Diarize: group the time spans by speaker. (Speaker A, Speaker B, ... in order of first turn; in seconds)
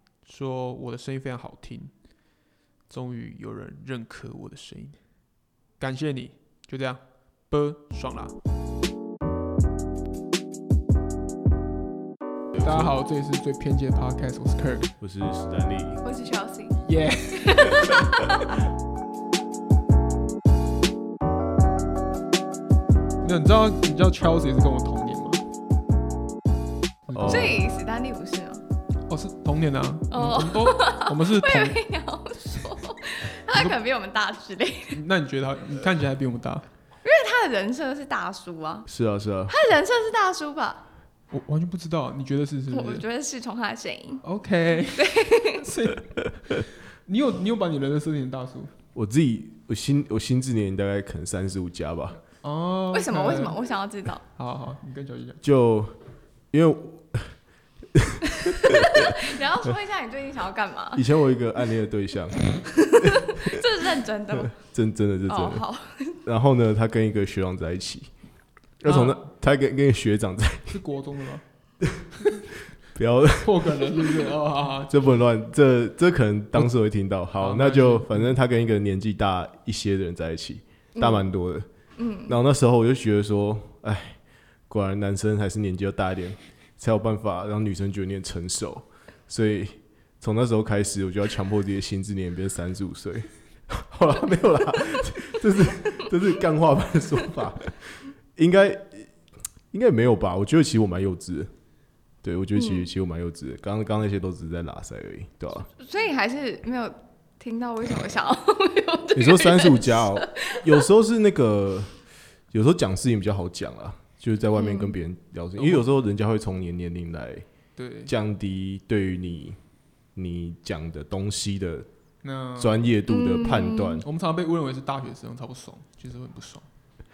Speaker A: 0.2-1.9, 2.9-5.0, 5.8-8.4, 12.6-14.9, 16.8-18.1, 23.2-25.4, 27.1-27.6, 29.1-31.8, 34.9-36.6, 41.3-43.0, 44.2-48.7, 52.4-53.7, 54.3-55.4, 68.8-69.2, 70.7-71.4, 72.2-72.5, 73.4-75.1, 77.4-78.3, 115.6-115.9, 117.8-118.1, 122.2-122.9, 123.4-126.7
Speaker B: 12.5-12.9, 15.0-16.0, 27.1-27.6, 38.9-39.5, 48.9-52.2, 55.4-56.0, 56.5-57.4, 57.9-59.0, 61.0-63.6, 64.3-65.6, 66.2-68.1, 68.8-70.8, 71.8-72.1, 73.0-74.3, 74.9-81.7, 82.3-99.1, 99.7-101.5, 102.2-105.7, 109.1-111.9, 112.5-117.5, 118.1-119.6, 120.2-121.9, 122.6-124.1
Speaker C: 16.0-16.8, 17.3-18.5, 27.3-28.6, 30.1-35.0, 37.0-38.9, 39.5-40.8, 42.7-44.2, 45.0-45.6, 52.9-54.2, 58.4-61.1, 62.8-64.5, 65.3-66.2, 81.0-81.3, 82.0-82.3, 102.6-102.9, 105.8-110.8, 114.5-114.9, 123.1-124.0